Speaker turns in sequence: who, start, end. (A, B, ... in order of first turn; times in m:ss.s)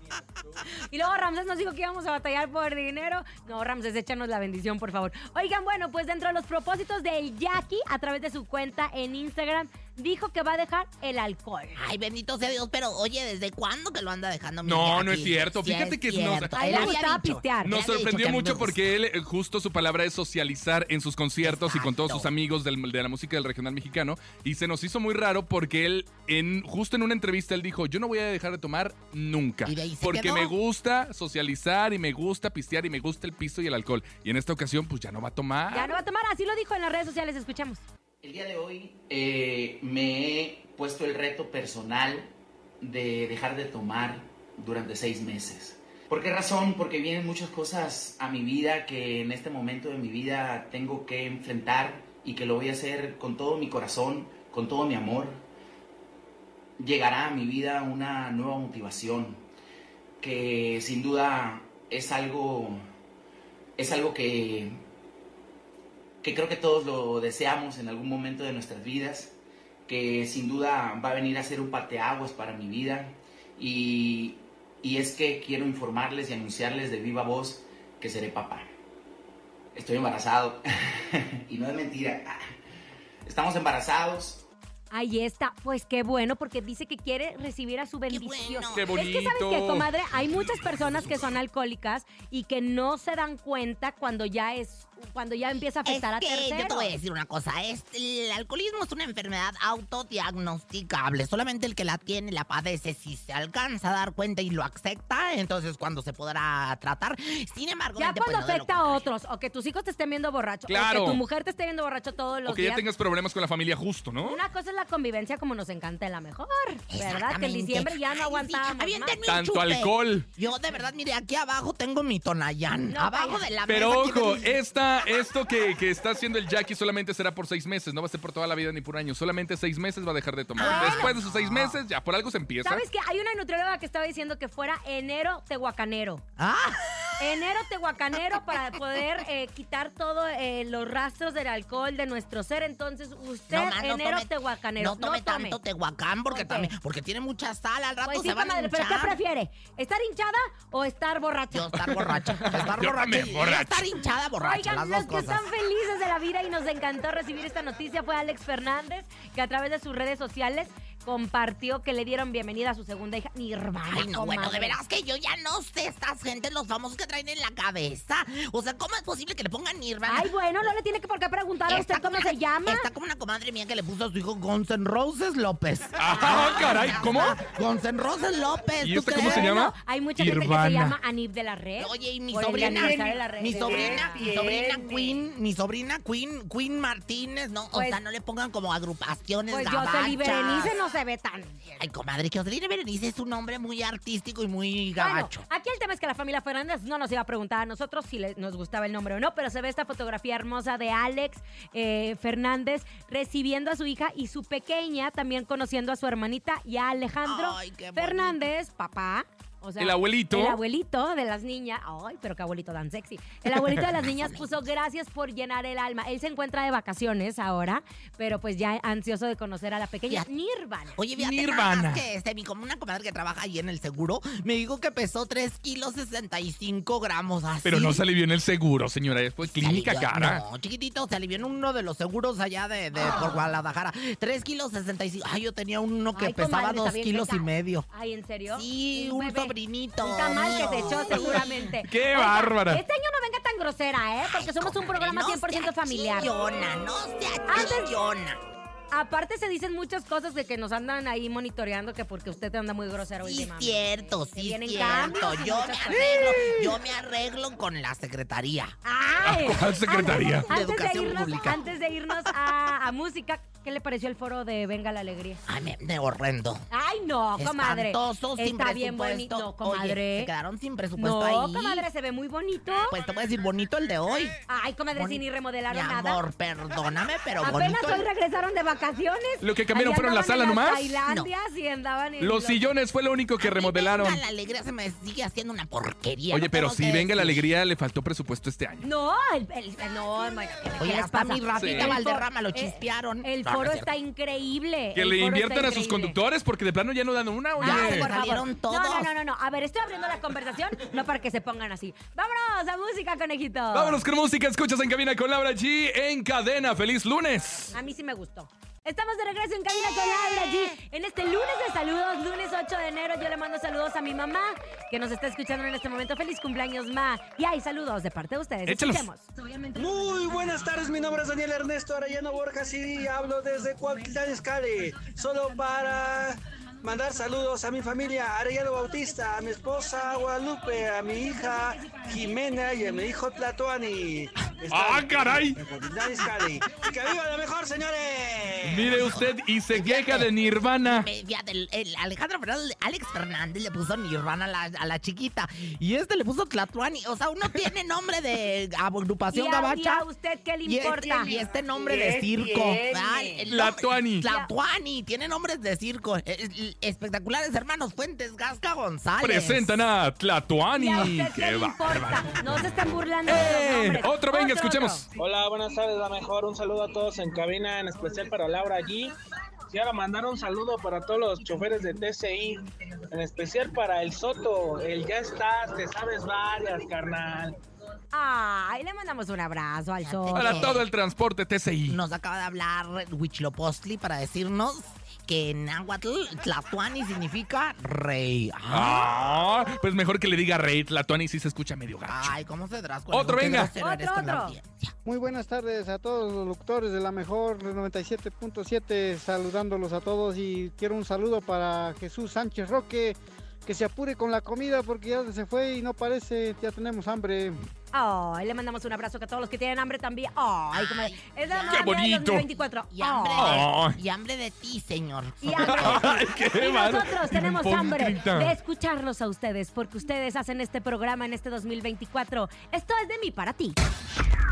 0:00.8-0:11.8 A
0:11.8-0:18.9 B
0:14.6-0:17.0 C
0:16.6-0:17.7 A
0:17.6-0:36.0 C
0:21.4-0:22.3 B
0:29.6-0:30.5 B
0:35.7-0:37.8 A
0:38.2-0:55.4 D
0:56.8-0:59.4 D
1:00.2-1:02.8 D
1:03.8-1:04.8 D
1:06.2-1:09.4 D
1:09.9-1:18.7 D
1:19.7-1:22.4 D
1:23.2-1:24.4 D
1:24.9-1:36.9 A
1:28.1-1:29.0 B
1:28.7-1:29.9 C
1:35.8-1:49.1 B
1:48.0-1:52.8 A
1:50.7-1:51.2 C
1:52.5-1:54.4 C
1:54.2-1:59.2 A
1:56.9-2:04.6 B
1:59.3-2:00.3 C
2:02.9-2:03.4 A
2:03.7-2:12.8 C
2:10.6-2:11.8 B
2:10.6-2:11.1 A
2:12.6-2:16.2 A
2:16.4-2:17.4 B
2:17.2-2:25.6 A
2:18.2-2:18.8 B
2:23.5-2:29.2 B
2:26.3-2:26.7 A
2:28.0-2:31.8 A
2:31.5-2:35.4 B
2:31.8-2:33.9 C
2:34.4-2:44.8 A
2:43.9-2:50.3 B
2:50.1-2:52.9 A
2:51.7-2:59.8 B
2:56.0-2:57.4 C
2:58.8-3:01.0 C
2:59.2-3:04.3 A
3:01.8-3:10.8 B
3:07.7-3:08.0 A
3:09.5-3:11.6 A
3:11.7-3:15.5 B
3:15.0-3:41.0 A
3:27.2-3:28.5 B
3:29.8-3:30.6 C
3:33.8-3:34.7 B
3:41.0-3:48.0 B
3:41.2-3:42.0 C
3:47.6-3:50.4 C
3:49.4-3:57.9 B
3:56.1-4:06.3 A
3:58.5-4:01.5 B
4:01.1-4:02.8 C
4:04.2-4:08.4 B
4:07.5-4:07.9 A
4:08.9-4:16.5 A
4:13.2-4:18.8 B
4:18.8-4:25.4 A
4:19.2-4:20.5 C
4:20.1-4:21.6 B
4:25.5-4:26.6 B
4:26.7-4:30.3 A
4:27.4-4:31.9 B
4:31.0-4:33.0 A
4:32.8-4:34.4 B
4:34.5-4:36.2 A
4:35.0-4:38.1 B
4:37.4-4:42.7 A
4:39.4-4:41.0 C
4:41.0-4:41.3 B
4:42.2-4:44.2 C
4:43.4-4:47.4 B
4:46.3-4:48.9 C
4:48.8-4:56.2 A
4:50.8-4:53.9 B
4:51.6-4:52.0 C
4:55.0-4:58.1 C
4:57.6-5:04.0 A
4:57.6-4:59.1 B
5:03.7-5:07.7 C
5:07.7-5:19.3 A
5:09.8-5:10.8 B
5:18.7-5:19.1 C
5:19.7-5:39.2 E
5:34.7-5:35.6 C
5:38.6-5:41.1 C
5:39.1-5:40.3 B
5:40.8-5:50.1 B
5:49.3-5:51.4 A
5:50.6-5:59.8 B
5:53.5-5:54.3 C
5:59.2-6:02.5 C
6:00.8-6:05.0 A
6:03.3-6:05.1 C
6:05.2-6:09.1 F
6:09.7-6:17.6 F
6:18.1-6:20.7 A
6:20.0-6:20.9 B
6:20.3-6:22.0 C
6:21.9-6:29.1 B
6:28.7-6:32.4 C
6:32.1-6:34.9 B
6:33.1-6:33.7 C
6:33.8-6:34.6 A
6:35.1-6:47.6 G
6:47.9-6:53.7 A
6:50.7-6:52.1 B
6:51.7-6:52.5 C
6:52.9-6:56.3 B
6:53.3-6:54.0 C
6:55.4-7:03.8 A
6:55.6-6:58.6 C